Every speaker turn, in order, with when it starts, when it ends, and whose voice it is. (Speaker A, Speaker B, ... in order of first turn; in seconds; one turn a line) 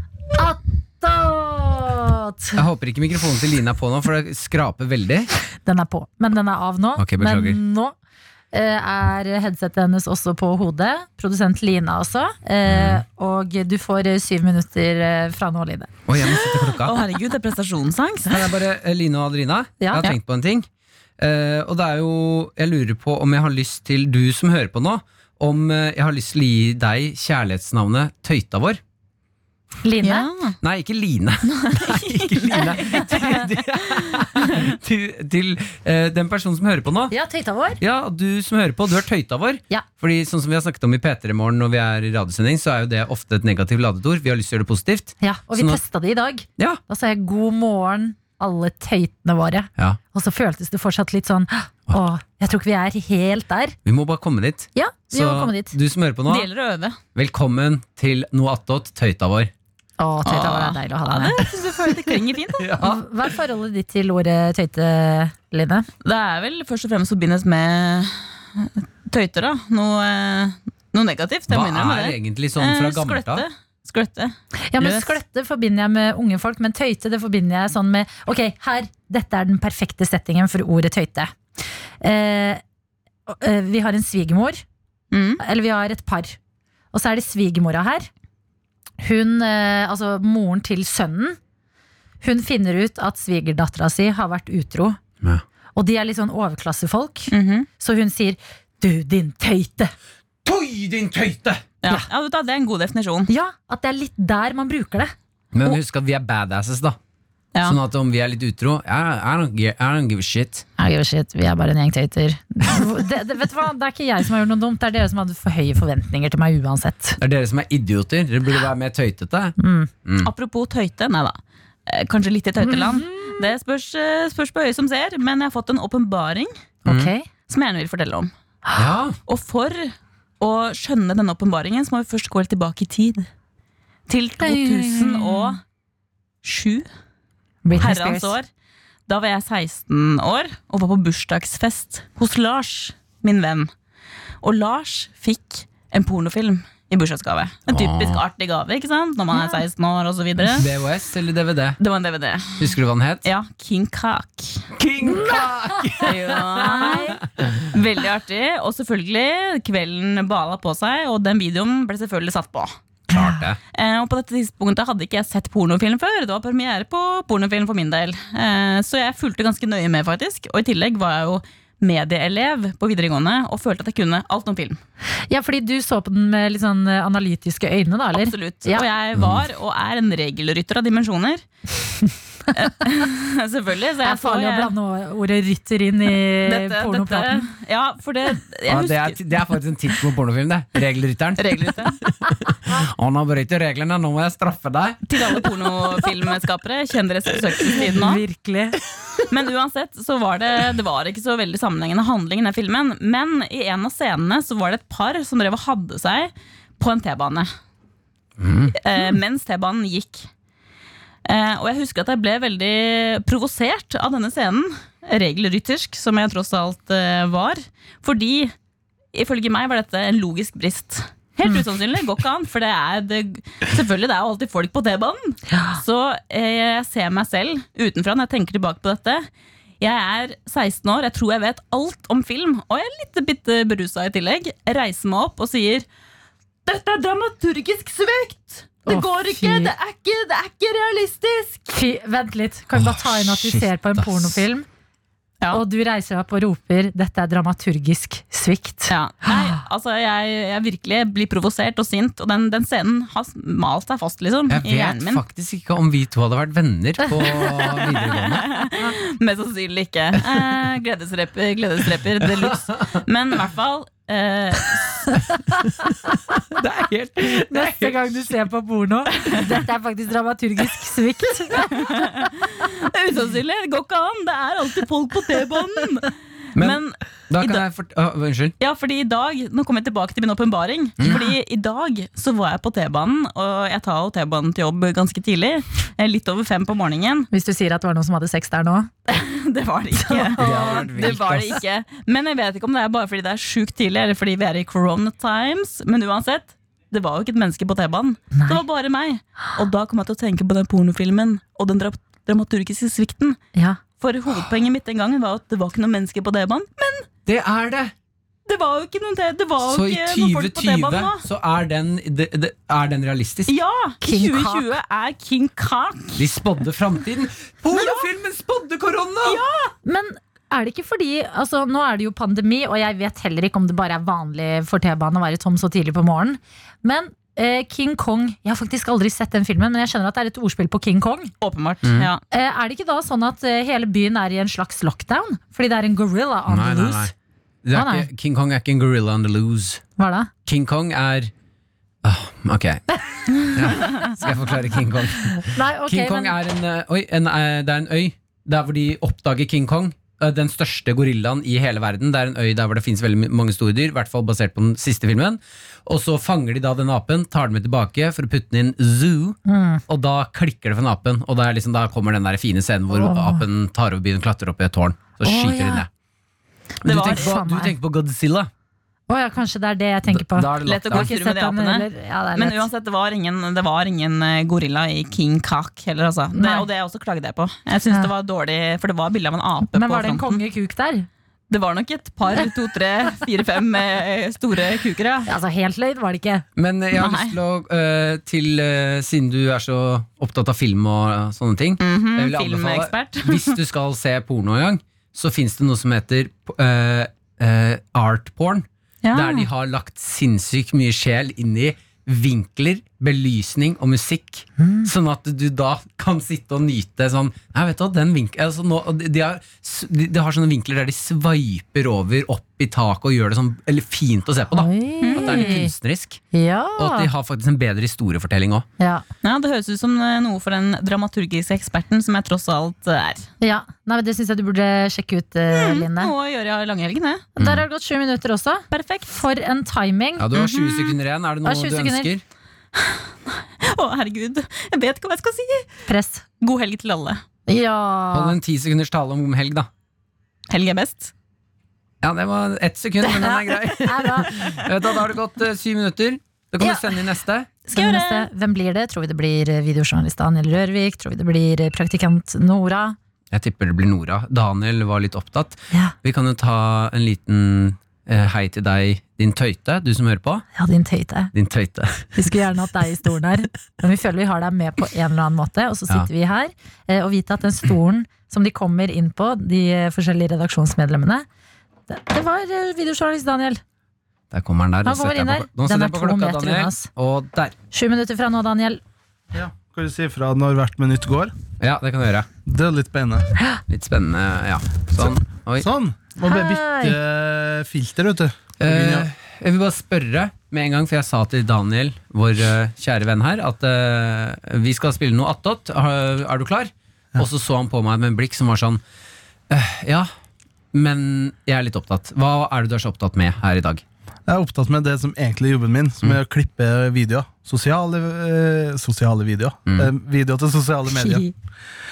Speaker A: 0.4-2.6
Speaker B: 2.6-5.3
Speaker A: 5.7-7.9
Speaker B: 7.0-7.6
Speaker A: 8.5-15.9
Speaker B: 12.7-13.0
Speaker B: 16.1-16.9
Speaker C: 16.2-18.5
Speaker B: 18.3-20.7
Speaker A: 19.8-20.1
Speaker B: 21.2-28.8
Speaker A: 29.8-30.3
Speaker C: 30.0-30.6
Speaker B: 30.6-37.1
Speaker C: 31.6-33.3
Speaker A: 37.1-37.8
Speaker B: 37.8-45.8
Speaker A: 45.2-53.8
Speaker B: 53.9-56.5
Speaker A: 54.8-55.8
Speaker C: 56.3-57.0
Speaker B: 57.1-59.5
Speaker A: 60.0-61.4
Speaker C: 60.2-62.7
Speaker B: 62.6-63.0
Speaker A: 62.8-65.9
Speaker C: 66.0-75.2
Speaker B: 71.5-73.5
Speaker A: 74.7-81.3
Speaker A: 82.0-82.6
Speaker A: 83.3-84.6
Speaker C: 85.1-85.4
Speaker A: 85.4-86.4
Speaker A: 86.9-88.1
Speaker A: 89.0-91.4
Speaker A: 92.2-95.0
Speaker A: 95.8-99.9
Speaker C: 97.3-97.7
Speaker B: 100.5-101.6
Speaker C: 101.8-103.3
Speaker A: 103.3-105.1
Speaker B: 105.5-107.0
Speaker B: 107.6-110.7
Speaker A: 110.8-117.2
Speaker B: 117.2-120.3
Speaker A: 119.6-119.9
Speaker C: 120.2-126.5
Speaker A: 122.6-123.5
Speaker B: 126.9-127.1
Speaker A: 126.9-127.3
Speaker C: 127.5-128.3
Speaker B: 128.8-129.2
Speaker C: 129.3-133.3
Speaker C: 134.1-135.6
Speaker A: 134.4-135.6
Speaker C: 136.4-136.9
Speaker A: 137.7-138.3
Speaker C: 137.8-138.5
Speaker C: 139.1-143.7
Speaker C: 144.4-150.7
Speaker B: 147.7-148.2
Speaker B: 150.6-151.8
Speaker C: 151.8-154.7
Speaker B: 152.6-153.3
Speaker B: 154.8-157.7
Speaker A: 155.1-156.1
Speaker C: 156.0-157.2
Speaker A: 156.6-157.2
Speaker C: 157.7-162.8
Speaker B: 163.1-163.6
Speaker A: 163.1-163.4
Speaker C: 163.8-174.8
Speaker A: 175.3-178.8
Speaker C: 178.1-181.4
Speaker B: 179.2-179.4
Speaker C: 182.5-184.7
Speaker A: 184.0-187.5
Speaker C: 186.4-189.2
Speaker B: 188.7-195.0
Speaker C: 191.4-192.0
Speaker C: 195.1-198.2
Speaker A: 197.8-198.8
Speaker C: 199.3-207.5
Speaker B: 208.4-208.8
Speaker C: 208.8-210.3
Speaker C: 211.3-218.5
Speaker C: 219.1-229.3
Speaker A: 225.5-225.8
Speaker C: 229.8-235.9
Speaker C: 236.7-241.7
Speaker A: 238.9-239.7
Speaker A: 241.7-244.7
Speaker B: 242.7-244.4
Speaker A: 245.5-248.9
Speaker C: 248.9-255.2
Speaker B: 254.5-258.6
Speaker C: 258.1-265.0
Speaker B: 262.4-263.0
Speaker B: 266.4-268.0
Speaker A: 267.2-272.7
Speaker C: 271.6-277.6
Speaker B: 276.6-278.5
Speaker C: 278.6-287.3
Speaker A: 287.3-288.9
Speaker C: 289.1-303.4
Speaker A: 290.0-291.1
Speaker B: 290.4-291.6
Speaker A: 298.3-298.6
Speaker A: 303.6-303.8
Speaker C: 304.0-307.1
Speaker B: 307.3-307.9
Speaker C: 308.5-311.2
Speaker B: 309.6-313.5
Speaker C: 313.5-316.2
Speaker A: 314.0-314.7
Speaker B: 316.1-319.4
Speaker C: 317.7-318.1
Speaker C: 319.2-319.7
Speaker A: 319.9-331.3
Speaker C: 331.4-332.2
Speaker B: 331.8-332.1
Speaker A: 332.3-337.1
Speaker B: 336.5-337.1
Speaker B: 337.6-339.8
Speaker A: 337.7-338.1
Speaker A: 340.0-340.3
Speaker B: 340.5-341.3
Speaker B: 342.0-365.9
Speaker A: 343.3-344.2
Speaker A: 345.3-346.4
Speaker A: 359.5-359.8
Speaker A: 362.9-363.4
Speaker A: 365.2-365.9
Speaker A: 366.8-367.8
Speaker B: 366.8-368.5
Speaker C: 366.9-367.3
Speaker A: 369.1-372.6
Speaker B: 370.1-371.1
Speaker C: 370.6-380.4
Speaker A: 376.3-376.7
Speaker A: 379.6-381.1
Speaker C: 381.5-385.3
Speaker A: 385.3-386.4
Speaker B: 386.6-416.2
Speaker C: 386.9-387.4
Speaker C: 391.8-393.6
Speaker C: 399.0-399.5
Speaker A: 404.6-404.9
Speaker A: 414.5-415.7
Speaker C: 415.0-415.6
Speaker A: 416.3-417.1
Speaker B: 416.8-418.7
Speaker A: 418.8-419.0
Speaker C: 419.2-423.3
Speaker A: 423.4-426.1
Speaker C: 425.5-427.3
Speaker A: 427.4-430.3
Speaker B: 427.4-427.6
Speaker C: 428.7-429.1
Speaker B: 430.2-432.2
Speaker C: 430.3-431.0
Speaker A: 431.4-432.1
Speaker C: 432.8-435.7
Speaker A: 435.9-436.2
Speaker C: 436.4-437.2
Speaker A: 437.5-438.4
Speaker B: 438.1-439.7
Speaker C: 440.5-441.1
Speaker B: 442.0-447.5
Speaker A: 443.0-444.4
Speaker C: 447.7-448.3
Speaker A: 447.7-453.0
Speaker B: 453.3-460.4
Speaker A: 460.6-461.3
Speaker B: 461.3-462.1
Speaker A: 462.1-471.3
Speaker A: 471.9-473.6
Speaker B: 474.3-477.6
Speaker A: 474.9-476.9
Speaker A: 477.7-478.8
Speaker D: 479.3-481.4
Speaker B: 481.6-482.3
Speaker D: 482.5-483.3
Speaker B: 483.7-485.7
Speaker D: 485.0-489.1
Speaker A: 486.2-487.0
Speaker B: 488.6-498.8
Speaker B: 499.5-500.1
Speaker B: 500.7-503.8
Speaker D: 504.3-511.3
Speaker A: 510.9-511.3